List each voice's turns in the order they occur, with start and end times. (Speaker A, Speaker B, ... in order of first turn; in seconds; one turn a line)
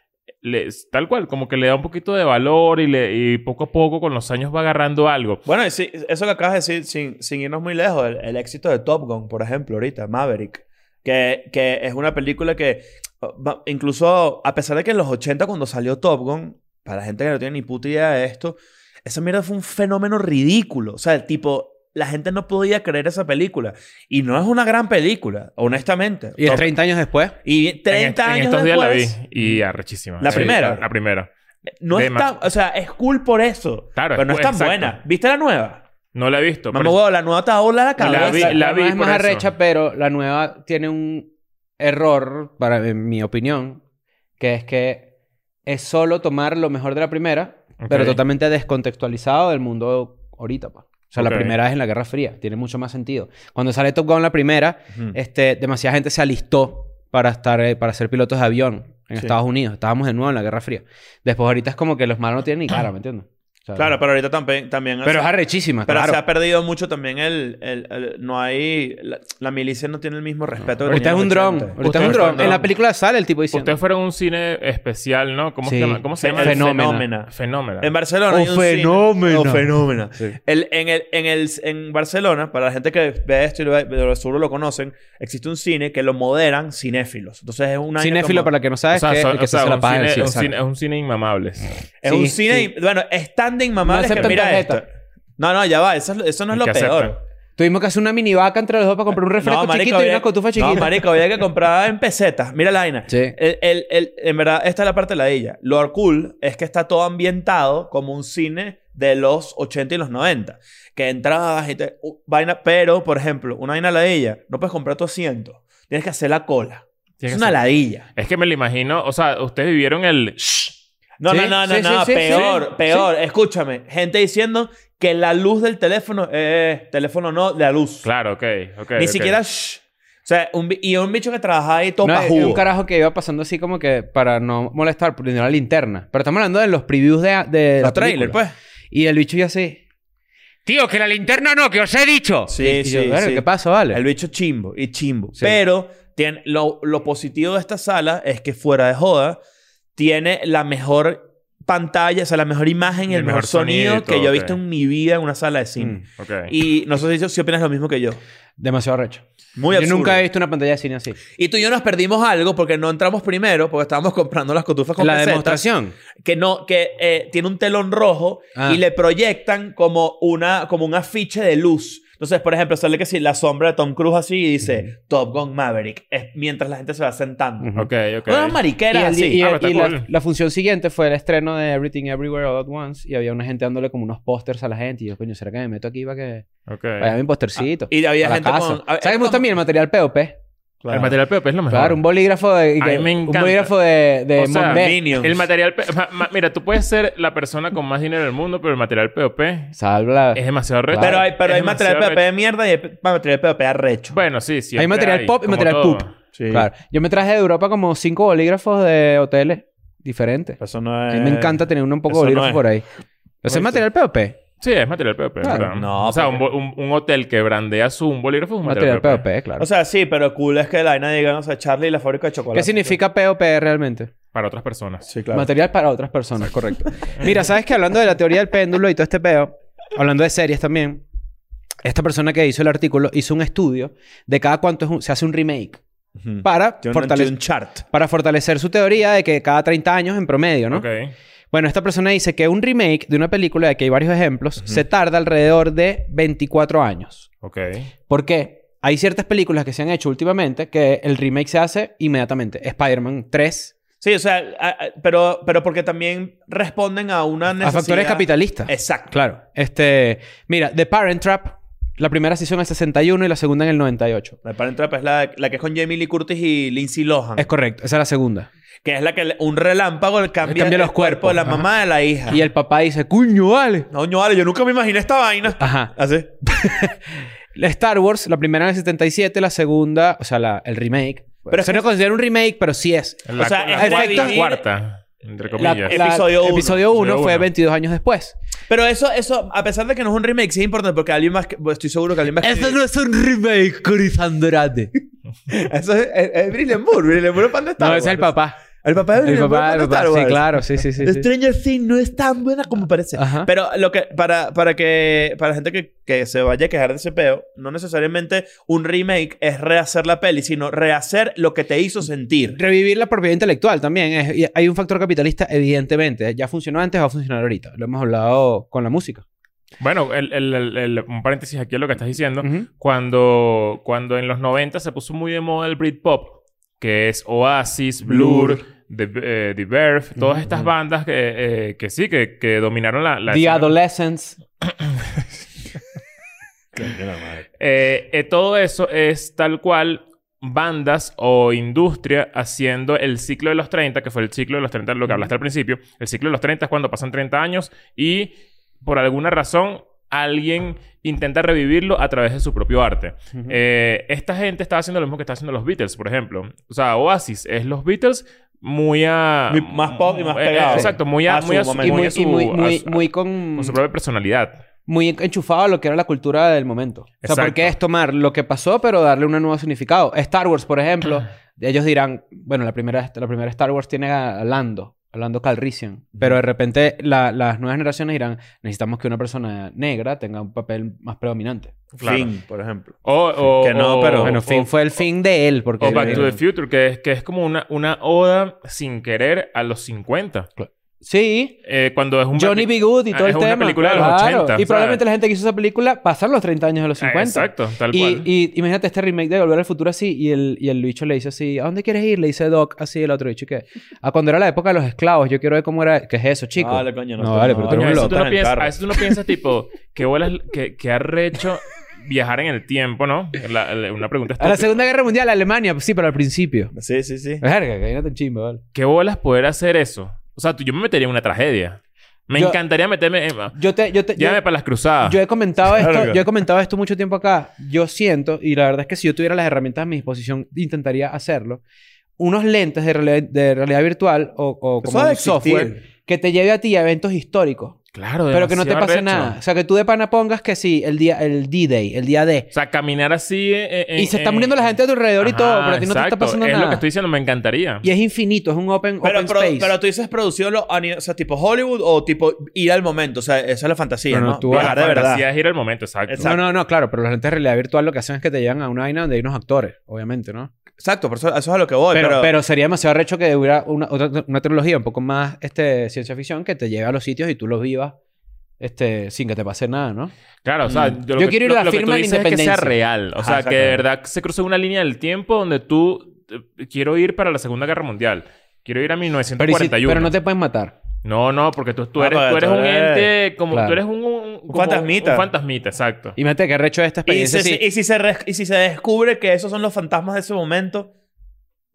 Speaker A: 0.4-5.4
Speaker B: 5.5-26.7
Speaker C: 26.4-27.4
Speaker B: 27.4-29.6
Speaker A: 27.9-31.3
Speaker B: 30.2-30.8
Speaker C: 30.3-30.6
Speaker B: 31.8-35.8
Speaker A: 31.9-32.3
Speaker A: 34.0-35.0
Speaker A: 36.1-37.0
Speaker B: 36.7-38.6
Speaker C: 38.0-43.8
Speaker A: 38.0-39.5
Speaker C: 44.4-45.1
Speaker C: 45.6-63.9
Speaker A: 47.8-48.2
Speaker A: 51.2-51.5
Speaker B: 63.8-65.3
Speaker C: 65.0-66.2
Speaker B: 65.8-72.7
Speaker C: 70.8-73.7
Speaker A: 71.8-72.6
Speaker A: 73.5-77.9
Speaker C: 75.6-77.1
Speaker B: 76.2-88.5
Speaker C: 78.3-80.4
Speaker C: 88.0-90.5
Speaker A: 88.9-91.8
Speaker B: 92.0-94.8
Speaker C: 92.0-92.7
Speaker C: 93.8-94.8
Speaker B: 95.4-97.2
Speaker A: 96.5-97.1
Speaker C: 97.6-101.0
Speaker B: 99.4-118.1
Speaker C: 103.1-103.3
Speaker A: 117.2-117.6
Speaker A: 118.2-120.8
Speaker B: 121.2-128.1
Speaker C: 121.3-123.1
Speaker A: 128.0-129.4
Speaker B: 128.9-132.6
Speaker C: 132.0-138.4
Speaker B: 137.8-138.5
Speaker C: 138.9-139.8
Speaker C: 140.6-144.0
Speaker B: 142.5-149.4
Speaker B: 149.9-158.2
Speaker A: 153.1-154.6
Speaker A: 156.2-156.5
Speaker C: 158.6-161.2
Speaker B: 159.6-160.2
Speaker B: 161.4-165.6
Speaker C: 165.0-165.9
Speaker B: 166.2-177.7
Speaker C: 168.6-168.8
Speaker C: 177.6-177.9
Speaker A: 177.8-178.6
Speaker B: 178.2-179.4
Speaker C: 178.9-186.4
Speaker A: 179.3-180.1
Speaker A: 186.7-187.1
Speaker C: 187.0-190.3
Speaker B: 187.8-189.4
Speaker B: 190.8-191.2
Speaker A: 190.9-192.0
Speaker C: 191.7-195.0
Speaker A: 192.8-193.7
Speaker A: 194.3-199.7
Speaker B: 194.7-195.4
Speaker C: 199.8-201.2
Speaker A: 200.3-202.2
Speaker B: 201.0-204.2
Speaker A: 204.1-206.1
Speaker C: 204.8-210.6
Speaker B: 206.3-206.7
Speaker B: 210.6-212.6
Speaker C: 211.1-212.8
Speaker C: 213.4-214.4
Speaker B: 213.5-213.8
Speaker A: 214.6-219.2
Speaker C: 215.4-215.7
Speaker B: 215.4-216.4
Speaker C: 218.6-219.7
Speaker B: 219.6-223.0
Speaker C: 222.5-224.1
Speaker A: 224.3-225.1
Speaker B: 225.1-225.5
Speaker C: 225.3-231.0
Speaker C: 231.8-235.8
Speaker B: 236.2-237.8
Speaker C: 236.4-237.3
Speaker C: 237.9-240.8
Speaker A: 240.7-241.1
Speaker C: 241.5-247.3
Speaker A: 247.4-247.9
Speaker C: 248.1-253.7
Speaker B: 254.0-259.1
Speaker C: 257.6-264.4
Speaker B: 264.4-267.5
Speaker C: 267.4-268.5
Speaker B: 268.8-272.4
Speaker C: 270.4-271.7
Speaker C: 272.3-273.9
Speaker B: 273.9-276.3
Speaker C: 275.6-284.4
Speaker B: 281.5-281.9
Speaker A: 283.3-286.1
Speaker B: 283.4-284.6
Speaker B: 285.6-286.8
Speaker C: 285.6-288.4
Speaker A: 286.9-287.5
Speaker B: 288.7-292.8
Speaker C: 292.4-294.9
Speaker B: 295.5-298.3
Speaker C: 297.8-298.6
Speaker B: 298.8-312.6
Speaker C: 299.2-301.3
Speaker C: 303.1-303.5
Speaker C: 312.5-319.2
Speaker A: 319.8-333.7
Speaker C: 322.4-322.7
Speaker C: 328.1-328.6
Speaker C: 330.2-330.6
Speaker C: 333.3-334.4
Speaker B: 336.8-337.4
Speaker A: 337.6-364.6
Speaker B: 359.5-362.1
Speaker C: 360.7-360.9
Speaker C: 361.8-363.8
Speaker C: 364.9-381.7
Speaker A: 367.2-367.7
Speaker A: 381.9-382.3
Speaker B: 382.0-383.0
Speaker A: 383.0-384.7
Speaker B: 383.6-384.4
Speaker C: 384.2-386.4
Speaker A: 385.8-390.5
Speaker B: 385.8-386.3
Speaker C: 390.6-391.6
Speaker A: 391.6-395.0
Speaker C: 392.3-408.2
Speaker A: 397.0-398.3
Speaker B: 406.6-408.8
Speaker A: 407.7-414.8
Speaker C: 414.4-416.7
Speaker B: 416.7-417.4
Speaker C: 417.4-418.6
Speaker A: 418.7-423.6
Speaker C: 423.5-424.4
Speaker A: 424.1-425.2
Speaker C: 425.0-431.6
Speaker B: 425.7-426.2
Speaker C: 432.2-437.8
Speaker B: 434.8-435.8
Speaker A: 437.9-439.3
Speaker C: 438.3-442.5
Speaker A: 442.5-444.6
Speaker C: 444.0-446.8
Speaker A: 445.2-447.9
Speaker C: 447.8-449.7
Speaker B: 449.0-455.2
Speaker C: 454.1-454.8
Speaker A: 454.5-456.3
Speaker B: 456.1-456.4
Speaker C: 456.2-460.5
Speaker B: 460.8-462.3
Speaker C: 461.9-467.9
Speaker C: 468.6-470.1
Speaker A: 470.4-480.1
Speaker B: 470.6-471.0
Speaker C: 471.1-472.7
Speaker B: 473.2-473.8
Speaker C: 479.4-480.7
Speaker A: 481.0-486.2
Speaker B: 482.0-483.1
Speaker C: 483.5-483.8
Speaker B: 484.5-485.3
Speaker C: 486.2-487.6
Speaker B: 487.1-490.9